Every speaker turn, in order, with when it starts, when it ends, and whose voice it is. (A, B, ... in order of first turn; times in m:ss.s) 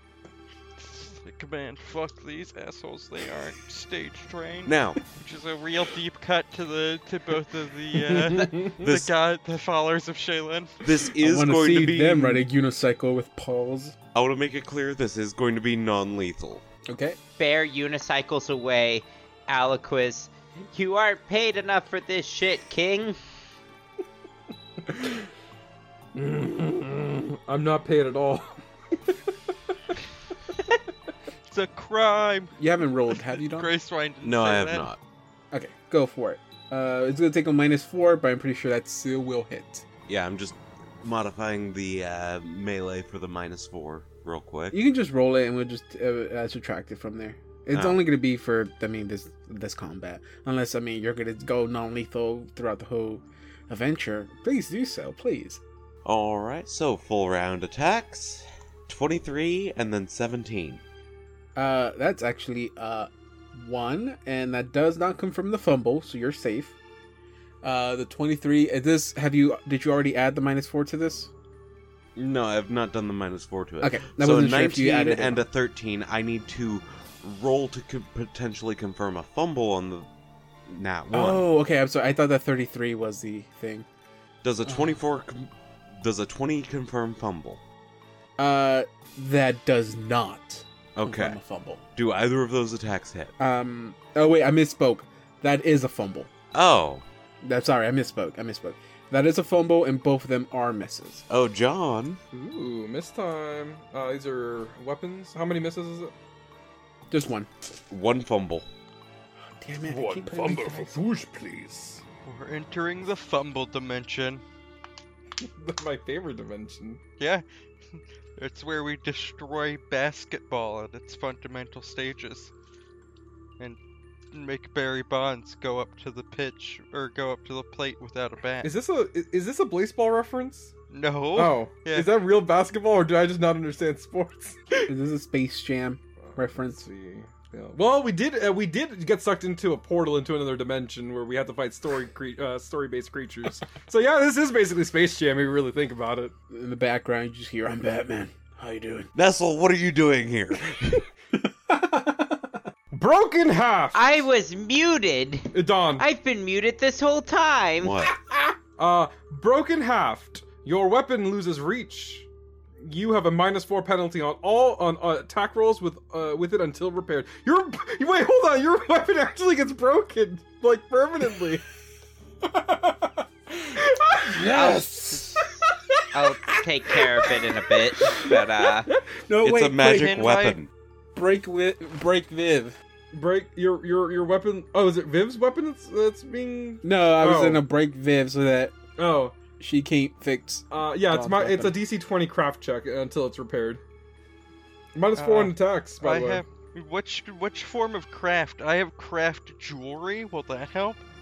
0:00.8-0:10.8 A
0:04.6-0:05.0 B
0:08.1-0:08.8 C
0:08.8-0:09.1 B
0:10.8-0:12.4 B
0:11.2-0:14.0 D
0:14.1-0:16.6 B
0:16.9-0:17.2 D
0:17.4-0:23.2 E
0:26.1-0:29.3 C
0:31.5-0:32.5 A
0:32.6-0:33.7 D
0:33.1-0:34.9 A
0:34.2-0:35.0 B
0:35.5-0:39.8 D
0:40.0-0:44.8 B
0:44.7-0:55.6 D
0:47.7-0:48.0 B
0:56.0-1:00.8 B
1:01.6-1:06.8 D
1:07.6-1:11.3 D
1:12.2-1:20.1 B
1:13.8-1:15.4 D
1:20.6-1:21.4 B
1:21.1-1:23.8 D
1:24.4-1:27.6 B
1:24.6-1:25.0 D
1:28.4-1:31.8 D
1:31.0-1:31.4 B
1:32.0-1:33.3 B
1:33.4-1:36.3 D
1:36.5-1:37.0 B
1:37.4-1:41.2 D
1:41.3-1:42.2 B
1:42.3-1:46.1 C
1:47.1-1:47.5 D
1:47.9-1:48.7 B
1:49.6-1:51.0 D
1:49.8-1:52.0 C
1:52.2-1:54.4 A
1:55.4-1:57.0 C
1:58.0-2:02.5 A
2:04.3-2:08.7 A
2:08.6-2:10.7 C
2:10.9-2:12.1 A
2:11.3-2:14.9 C
2:14.9-2:16.9 D
2:16.2-2:26.3 C
2:26.5-2:29.1 D
2:29.1-2:31.0 B
2:31.3-2:32.6 D
2:32.9-2:34.3 C
2:33.9-2:38.0 E
2:35.5-2:36.0 C
2:37.8-2:38.2 B
2:38.8-2:42.3 C
2:42.8-2:51.6 C
2:52.5-2:53.2 D
2:53.6-2:55.4 C
2:54.3-2:55.1 D
2:54.4-2:55.6 E
2:56.1-2:58.9 E
2:58.0-2:59.0 C
2:59.3-3:00.3 D
2:59.4-3:00.7 B
2:59.8-3:00.6 A
3:01.1-3:02.8 D
3:03.1-3:07.6 C
3:06.8-3:08.8 D
3:09.0-3:09.3 C
3:09.6-3:11.8 D
3:10.7-3:13.8 C
3:14.9-3:16.4 C
3:15.2-3:21.0 A